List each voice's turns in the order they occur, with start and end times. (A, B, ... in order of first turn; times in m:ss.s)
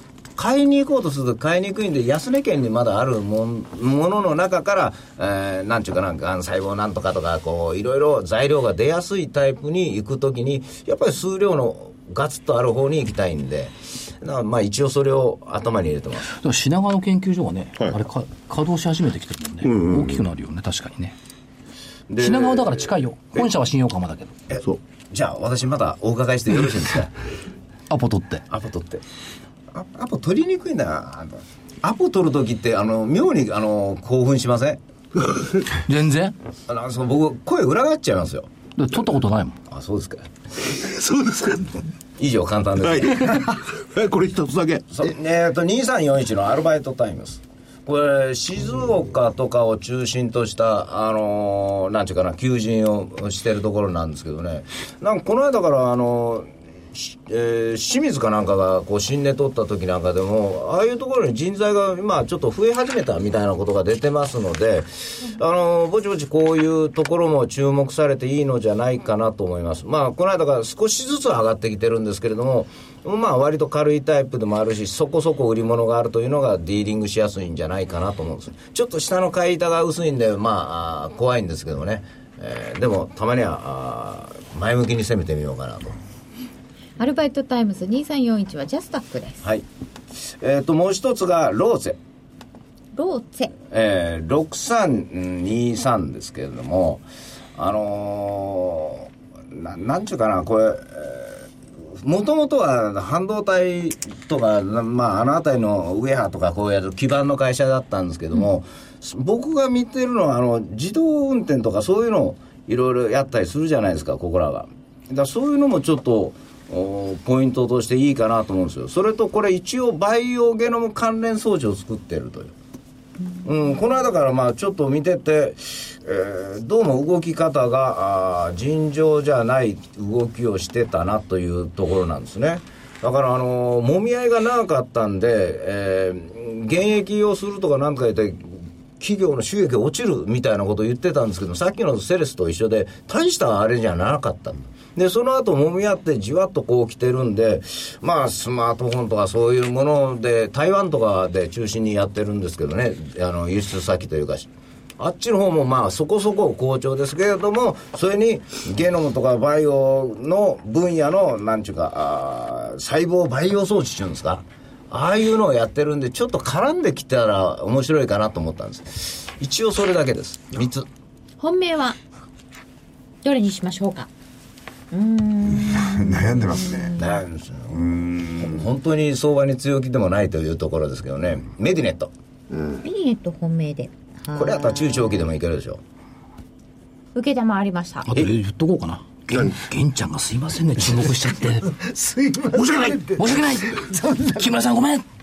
0:00.4-0:16.3 A
0:16.4-0:21.2 B
0:19.6-0:20.2 C
0:22.1-0:22.9 A
0:22.2-0:24.3 B
0:24.5-0:27.1 A
0:27.9-0:28.4 B
0:28.5-0:29.0 A
0:29.7-0:34.8 A
0:35.9-0:36.4 B
0:36.7-0:38.5 A
0:38.8-0:39.6 B
0:39.7-0:40.3 A
0:40.6-0:41.8 C
0:42.2-0:43.4 A
0:42.8-0:44.9 C
0:44.9-1:26.0 A
1:27.0-1:29.4 D
1:30.2-1:32.0 A
1:33.0-1:33.5 D
1:33.7-1:37.0 A
1:37.6-1:41.4 A
1:42.0-2:02.5 A
2:03.4-2:34.5 A
2:35.0-2:50.9 A
2:51.4-2:52.0 D
2:53.2-2:54.1 D
2:54.9-2:57.2 D
2:55.5-2:57.0 E
2:57.0-3:02.1 A
2:57.7-2:58.4 E
3:02.5-3:02.8 C
3:02.8-3:05.2 D
3:04.3-3:05.8 A
3:07.2-3:08.1 D
3:08.0-3:11.7 B
3:11.6-3:14.5 E
3:12.6-3:15.0 B